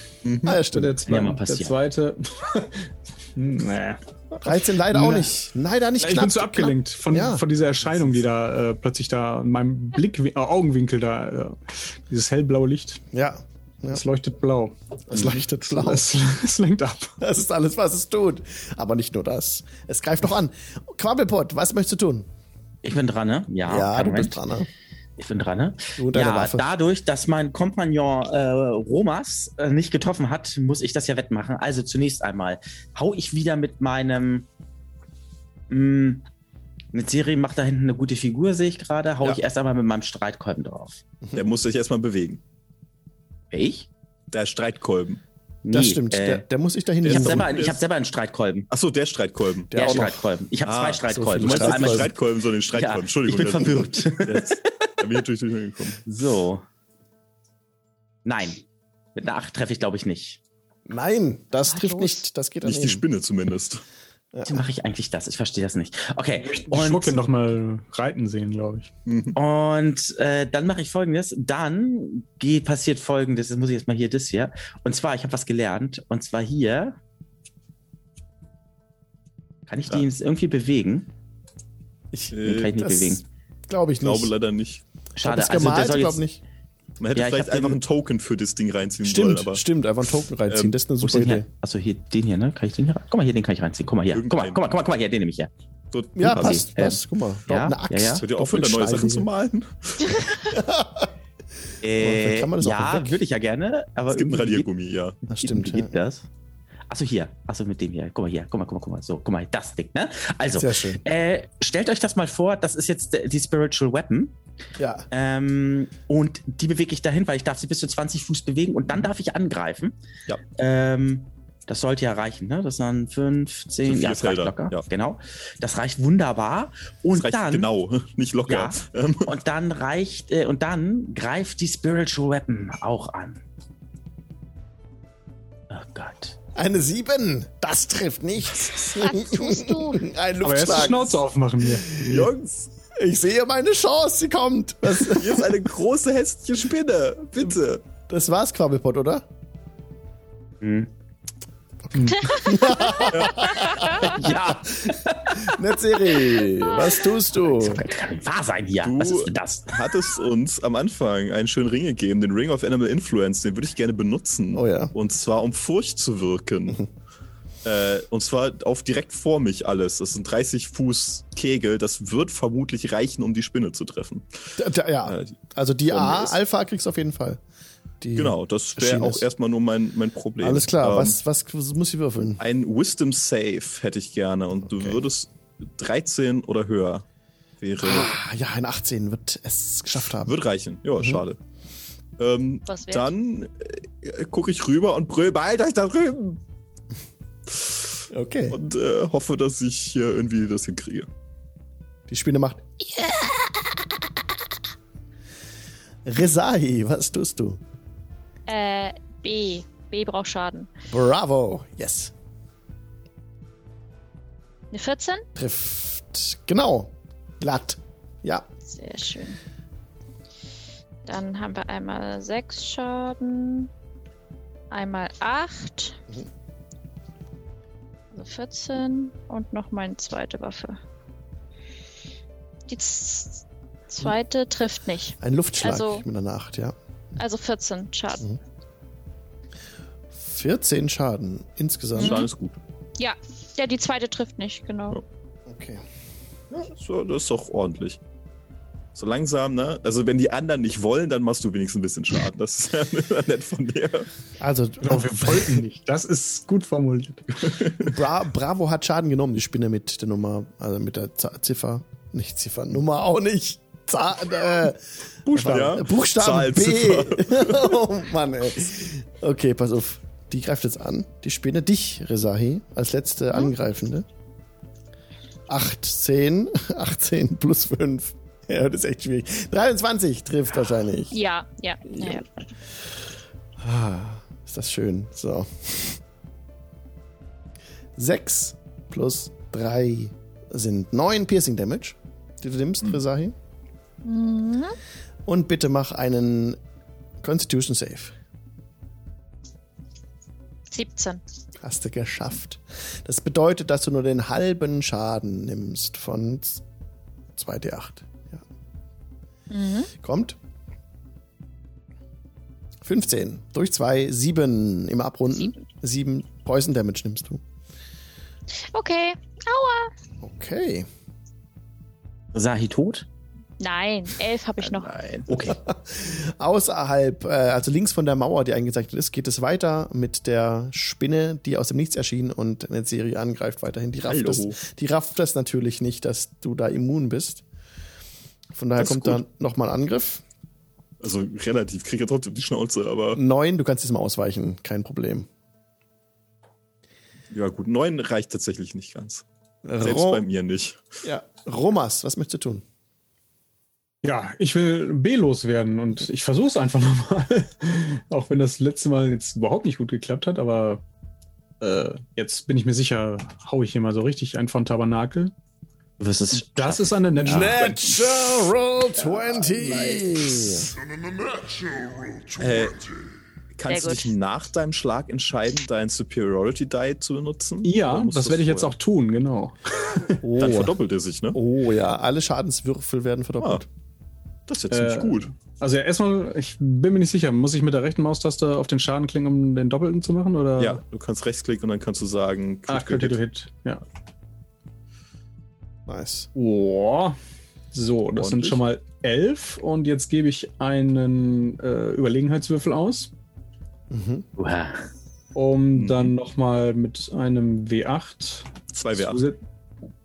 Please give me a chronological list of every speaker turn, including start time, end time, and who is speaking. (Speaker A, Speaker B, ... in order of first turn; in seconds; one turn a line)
Speaker A: 0.2-0.6
Speaker B: 0.4-1.0
Speaker C: 0.6-5.3
Speaker D: 1.1-1.8
Speaker B: 4.4-7.4
Speaker C: 6.0-13.0
Speaker B: 13.1-14.0
Speaker C: 13.9-17.1
Speaker B: 15.1-16.0
Speaker B: 17.2-22.3
Speaker D: 22.8-24.4
Speaker B: 23.6-24.7
Speaker D: 25.2-34.5
Speaker B: 26.0-26.7
Speaker D: 35.7-36.2
Speaker D: 36.9-41.0
Speaker A: 41.3-42.4
Speaker D: 43.5-43.9
Speaker A: 44.3-45.2
Speaker D: 45.6-46.4
Speaker B: 45.7-47.6
Speaker A: 47.0-47.8
Speaker D: 47.0-48.7
Speaker A: 48.7-50.0
Speaker B: 49.7-50.2
Speaker D: 49.7-52.2
Speaker A: 50.6-56.0
Speaker B: 51.1-52.1
Speaker D: 52.7-54.9
Speaker D: 56.0-56.6
Speaker D: 58.2-58.6
Speaker D: 59.1-60.4
Speaker B: 60.9-63.0
Speaker E: 61.7-62.2
Speaker A: 62.6-63.8
Speaker B: 64.3-64.6
Speaker D: 64.5-67.2
Speaker C: 66.4-68.9
Speaker A: 69.0-69.4
Speaker D: 69.3-77.0
Speaker D: 79.7-81.1
Speaker B: 82.1-84.3
Speaker A: 82.3-82.8
Speaker D: 82.4-83.2
Speaker A: 84.0-84.8
Speaker D: 85.2-86.2
Speaker B: 85.2-86.4
Speaker A: 87.0-89.6
Speaker D: 87.2-87.8
Speaker B: 89.0-91.5
Speaker A: 90.5-90.7
Speaker D: 91.0-95.5
Speaker A: 94.1-94.6
Speaker A: 95.9-96.7
Speaker B: 96.2-99.3
Speaker D: 96.3-98.2
Speaker A: 98.1-100.2
Speaker B: 100.5-101.1
Speaker D: 101.8-104.7
Speaker B: 102.0-103.2
Speaker A: 104.1-105.2
Speaker B: 105.3-105.9
Speaker D: 105.4-106.2
Speaker D: 106.9-114.3
Speaker B: 110.5-111.0
Speaker B: 114.8-115.1
Speaker D: 115.1-120.0
Speaker D: 120.5-127.7
Speaker A: 123.8-124.8
Speaker A: 127.2-129.3
Speaker D: 128.5-133.4
Speaker D: 135.7-136.4
Speaker B: 136.5-141.2
Speaker E: 138.9-140.1
Speaker C: 140.4-142.1
Speaker B: 141.8-142.2
Speaker A: 142.0-142.7
Speaker B: 142.9-145.6
Speaker A: 144.9-147.8
Speaker B: 148.1-149.2
Speaker D: 150.6-150.9
Speaker B: 151.9-157.9
Speaker E: 152.1-154.1
Speaker A: 153.1-153.5
Speaker D: 154.0-156.4
Speaker E: 156.6-156.9
Speaker D: 157.4-160.1
Speaker A: 158.8-166.8
Speaker B: 164.5-164.9
Speaker A: 167.6-175.3
Speaker B: 174.6-177.4
Speaker A: 175.9-176.4
Speaker B: 178.0-179.3
Speaker A: 178.2-181.2
Speaker B: 180.4-182.4
Speaker A: 182.4-187.0
Speaker A: 187.6-188.2
Speaker B: 187.8-190.4
Speaker A: 190.2-191.4
Speaker A: 192.2-196.4
Speaker E: 192.7-193.1
Speaker B: 198.1-198.6
Speaker A: 198.5-201.1
Speaker B: 202.1-202.7
Speaker B: 206.0-207.6
Speaker E: 208.5-210.7
Speaker B: 210.9-212.1
Speaker E: 214.7-215.2
Speaker B: 215.3-218.5
Speaker E: 218.7-219.4
Speaker E: 221.1-223.7
Speaker E: 224.7-226.0
Speaker E: 228.1-230.8
Speaker E: 232.7-236.0
Speaker B: 235.2-236.7
Speaker E: 237.2-238.2
Speaker B: 240.2-242.3
Speaker E: 241.9-242.3
Speaker A: 241.9-242.6
Speaker E: 243.0-245.0
Speaker B: 245.5-245.8
Speaker A: 246.5-248.0
Speaker A: 248.9-254.1
Speaker B: 254.4-255.6
Speaker C: 254.8-257.5
Speaker A: 257.4-257.9
Speaker B: 257.8-274.1
Speaker C: 265.3-265.8
Speaker A: 265.4-267.8
Speaker B: 275.5-281.1
Speaker E: 281.1-282.2
Speaker B: 281.9-282.2
Speaker B: 283.6-286.0
Speaker B: 288.0-293.3
Speaker E: 294.0-294.8
Speaker B: 295.2-296.6
Speaker B: 297.2-298.1
Speaker E: 300.7-301.2
Speaker B: 301.6-306.6
Speaker B: 307.4-308.4
Speaker E: 309.5-309.9
Speaker B: 310.0-310.4
Speaker B: 312.8-317.4
Speaker E: 318.7-319.9
Speaker B: 320.2-320.9
Speaker D: 322.3-323.1
Speaker E: 323.6-325.0
Speaker D: 325.2-325.6
Speaker B: 325.3-337.4
Speaker A: 334.1-334.6
Speaker B: 338.5-340.2
Speaker A: 338.8-339.2
Speaker A: 341.0-343.2
Speaker B: 343.1-345.3
Speaker A: 347.3-349.2
Speaker B: 349.6-350.3
Speaker A: 349.8-350.8
Speaker B: 351.0-352.6
Speaker C: 354.0-360.8
Speaker C: 361.6-365.3
Speaker D: 366.0-367.8
Speaker C: 366.3-367.8
Speaker B: 367.2-370.7
Speaker A: 372.4-372.9
Speaker A: 373.6-378.7
Speaker E: 373.7-374.1
Speaker C: 377.6-380.2
Speaker B: 380.2-380.7
Speaker A: 380.4-381.4
Speaker B: 381.3-383.7
Speaker A: 384.5-385.3
Speaker C: 384.7-390.8
Speaker A: 390.6-393.2
Speaker C: 392.7-393.8
Speaker B: 395.9-396.3
Speaker C: 396.3-397.1
Speaker C: 397.7-403.1
Speaker A: 398.1-398.6
Speaker B: 403.9-404.3
Speaker D: 404.4-404.9
Speaker C: 405.3-409.4
Speaker A: 405.7-406.1
Speaker A: 408.7-409.2